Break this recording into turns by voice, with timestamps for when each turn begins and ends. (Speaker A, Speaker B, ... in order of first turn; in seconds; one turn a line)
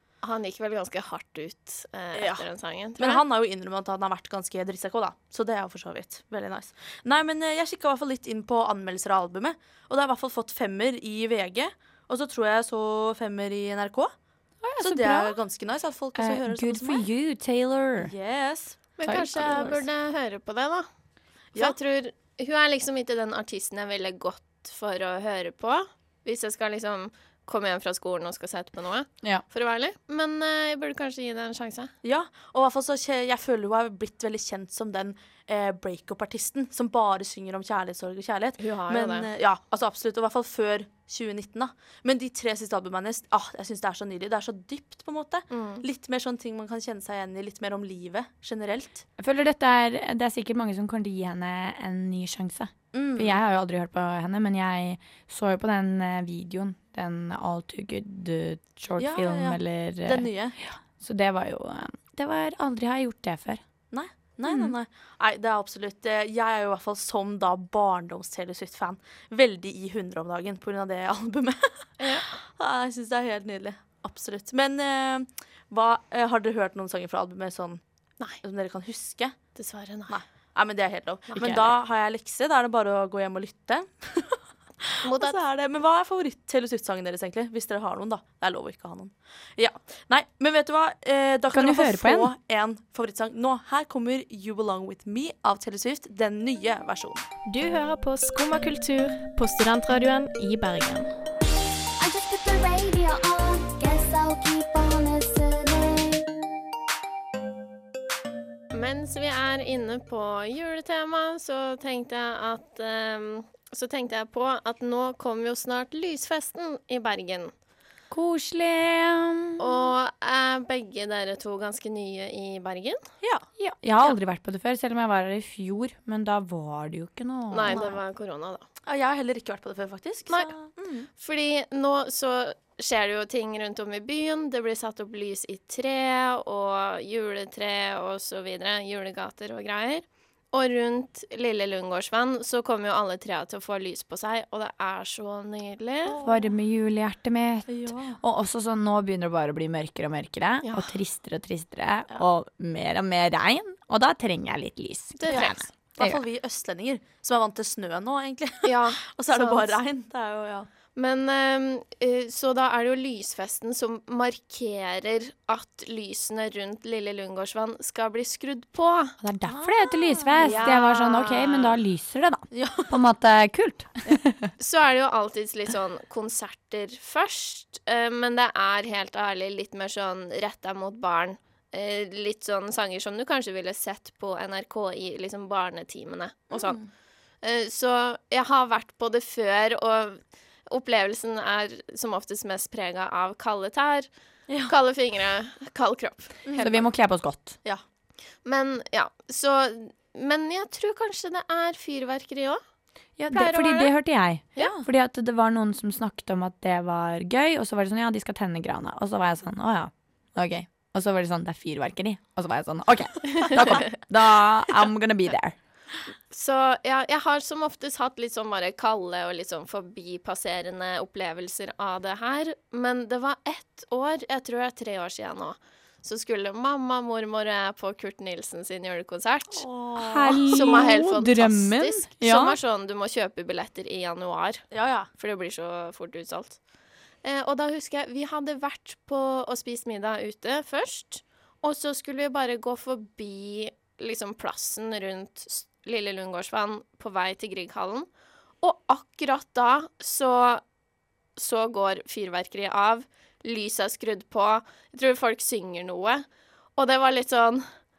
Speaker A: 0.2-3.2
Speaker B: 2.1-2.5
Speaker B: 3.0-14.1
Speaker C: 14.6-15.4
Speaker B: 14.8-17.1
Speaker C: 16.1-18.1
Speaker B: 18.0-18.9
Speaker A: 19.0-20.9
Speaker C: 19.0-19.8
Speaker B: 19.4-19.7
Speaker A: 21.6-31.9
Speaker B: 32.0-49.0
Speaker A: 38.6-39.3
Speaker A: 45.5-45.8
Speaker C: 49.2-63.6
Speaker B: 52.9-53.4
Speaker B: 59.0-60.6
Speaker B: 63.9-77.8
Speaker C: 64.5-64.7
Speaker A: 72.0-72.3
Speaker B: 78.4-79.3
Speaker A: 79.5-80.1
Speaker B: 80.1-97.2
Speaker C: 81.3-81.7
Speaker A: 85.0-85.4
Speaker C: 91.5-92.3
Speaker D: 97.5-101.1
Speaker E: 102.0-106.2
Speaker A: 108.7-117.5
Speaker C: 118.1-119.9
Speaker A: 119.6-123.0
Speaker C: 123.6-128.0
Speaker A: 127.5-128.7
Speaker B: 128.8-131.1
Speaker A: 131.2-146.2
Speaker B: 146.1-146.5
Speaker C: 146.2-156.2
Speaker B: 147.7-148.2
Speaker A: 150.6-150.9
Speaker A: 155.2-155.6
Speaker B: 155.3-160.7
Speaker A: 158.6-159.8
Speaker A: 160.9-169.2
Speaker C: 169.2-174.5
Speaker B: 169.5-170.8
Speaker A: 170.4-171.7
Speaker B: 172.5-172.9
Speaker A: 174.6-186.8
Speaker B: 186.5-186.8
Speaker A: 187.4-194.1
Speaker A: 194.7-196.4
Speaker B: 196.4-196.8
Speaker C: 196.6-197.6
Speaker A: 198.4-202.6
Speaker C: 203.2-215.6
Speaker A: 203.3-203.9
Speaker B: 204.6-204.8
Speaker A: 216.3-229.6
Speaker B: 229.5-230.9
Speaker C: 230.0-232.6
Speaker A: 230.5-234.6
Speaker B: 234.7-235.1
Speaker A: 235.2-236.6
Speaker A: 237.2-248.1
Speaker A: 248.6-250.6
Speaker A: 251.3-256.2
Speaker A: 256.8-257.6